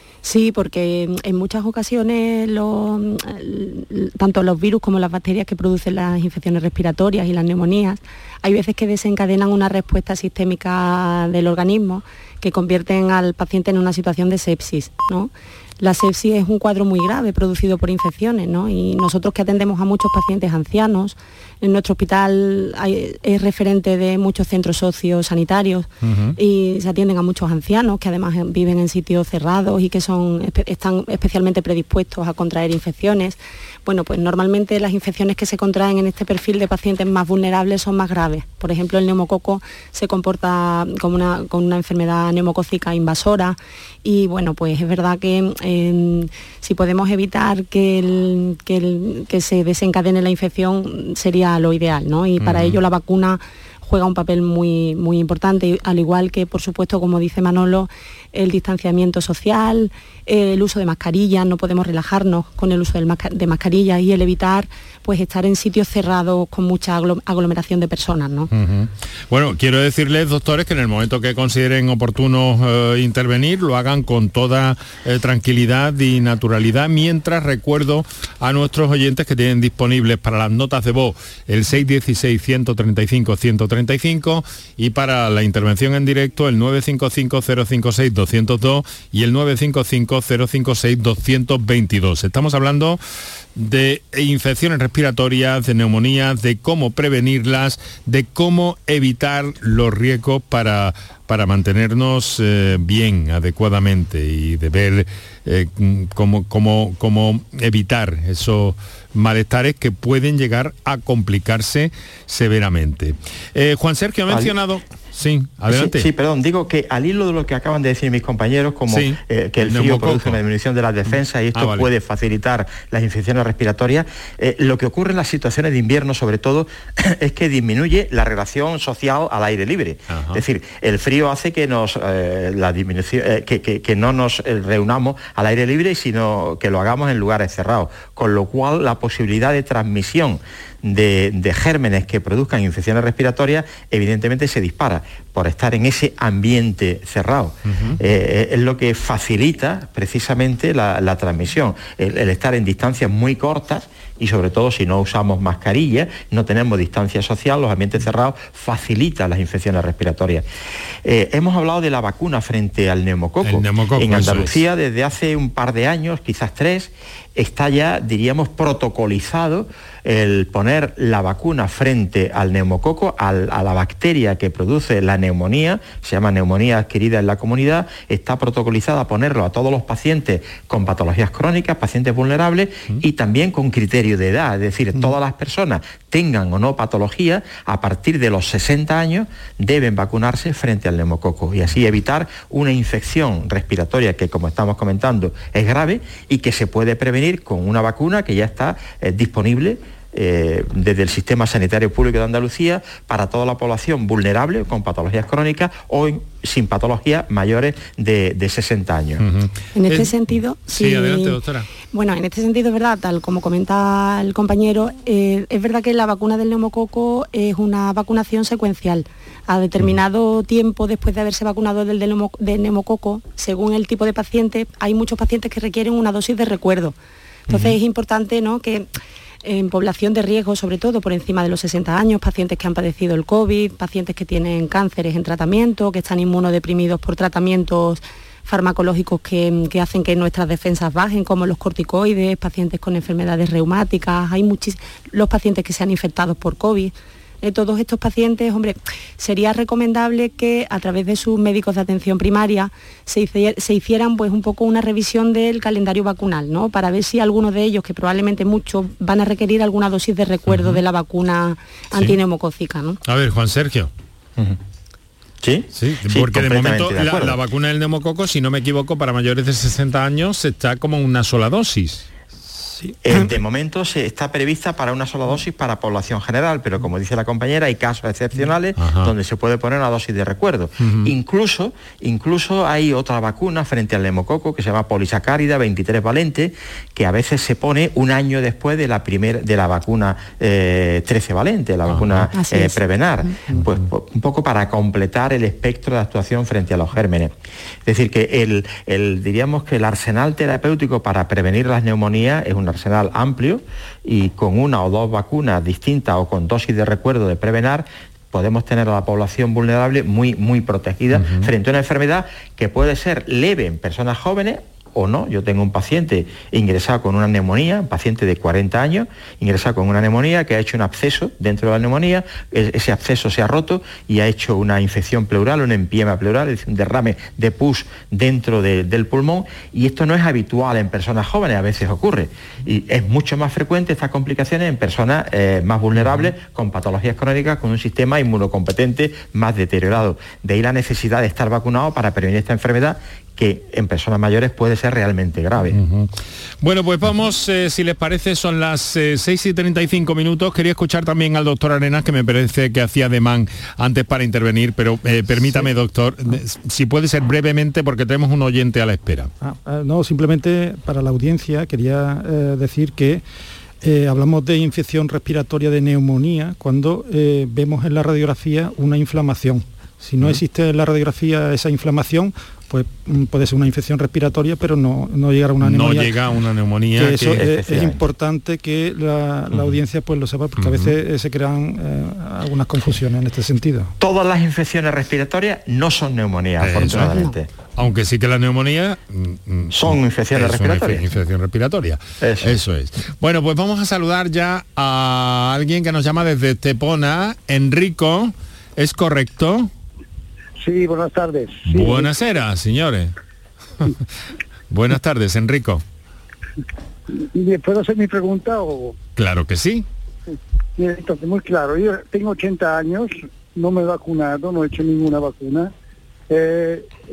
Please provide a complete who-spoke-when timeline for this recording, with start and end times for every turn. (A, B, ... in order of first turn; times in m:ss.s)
0:00.2-1:08.5 A
0:26.0-0:26.4 B
0:52.4-0:52.8 B
1:08.5-1:33.0 B
1:33.6-1:56.1 B
1:54.3-1:54.5 C
1:55.7-2:40.4 C
1:58.9-2:00.4 B
2:01.1-2:01.9 B
2:10.1-2:10.4 B
2:27.6-2:28.0 B
2:41.0-3:29.2 C
2:43.4-2:44.6 B
3:29.2-3:31.7 B
3:29.7-3:31.4 A
3:31.9-3:46.9 A
3:47.5-3:47.7 B
3:47.5-3:48.9 A
3:49.4-4:23.0 A
4:20.4-4:20.8 B
4:23.0-4:23.9 B
4:25.4-4:27.4 C
4:25.7-4:32.0 B
4:32.4-4:33.2 D
4:33.0-4:57.3 C
4:38.8-4:39.1 B
4:40.8-4:41.1 B
4:51.9-4:52.2 B
4:52.3-4:52.8 A
4:57.8-5:45.8 C
5:11.1-5:11.5 B
5:36.0-5:36.3 B
5:45.7-5:59.3 B
5:59.4-6:03.2 D
6:03.8-6:16.2 D
6:15.6-6:17.4 B
6:17.0-6:23.9 D
6:17.3-6:18.0 C
6:20.6-6:21.0 B
6:24.0-6:27.5 C
6:26.6-6:27.1 B
6:27.0-6:27.3 A
6:27.8-6:39.7 B
6:29.7-6:31.0 C
6:32.2-6:32.6 C
6:40.6-6:42.1 E
6:41.7-6:43.1 B
6:44.7-6:45.8 B
6:47.3-6:49.0 E
6:49.2-6:49.8 B
6:50.8-6:55.7 E
6:56.3-6:56.9 E